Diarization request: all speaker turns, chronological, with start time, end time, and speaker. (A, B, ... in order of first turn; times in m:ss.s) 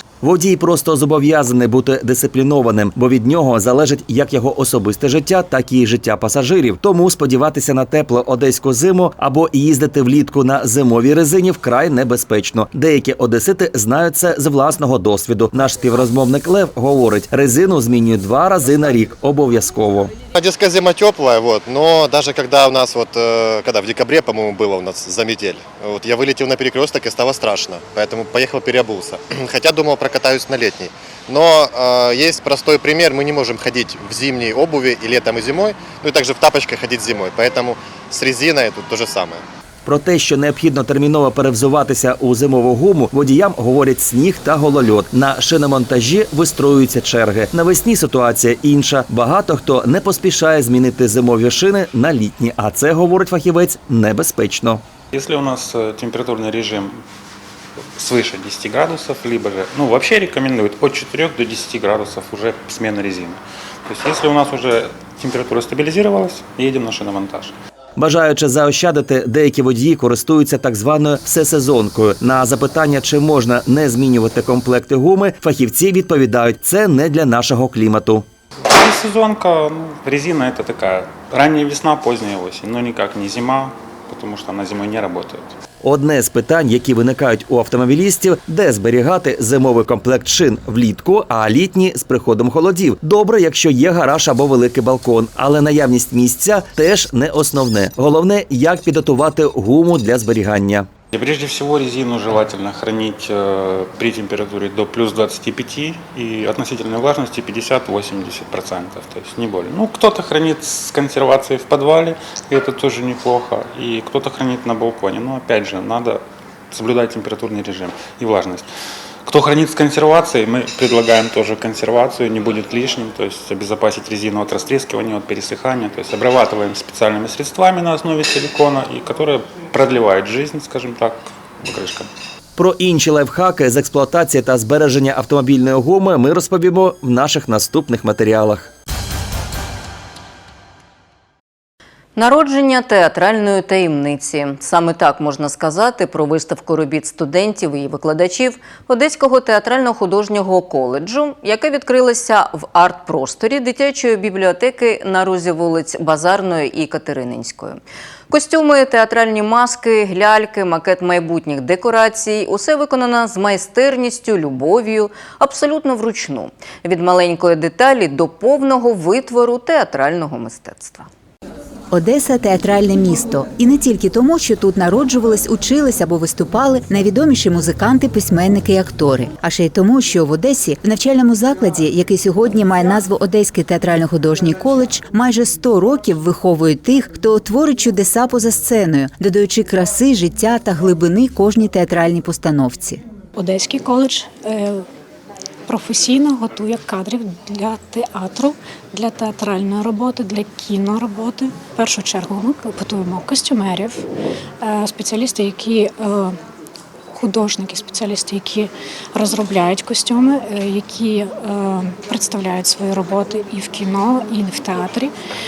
0:00.2-0:20.2 A
0:20.3-0:39.4 B
0:39.8-0:54.8 A
0:55.1-0:57.0 C
0:58.0-1:07.6 C
1:08.0-1:18.3 A
1:18.7-1:25.6 C
1:25.8-1:40.9 A
1:41.1-1:58.7 C
1:59.3-2:12.1 C
2:12.6-2:18.7 A
2:22.2-2:51.1 D
2:51.9-3:13.0 E
3:13.4-3:14.9 F
3:15.7-3:24.1 F
3:24.6-3:26.4 F
3:27.1-3:35.1 F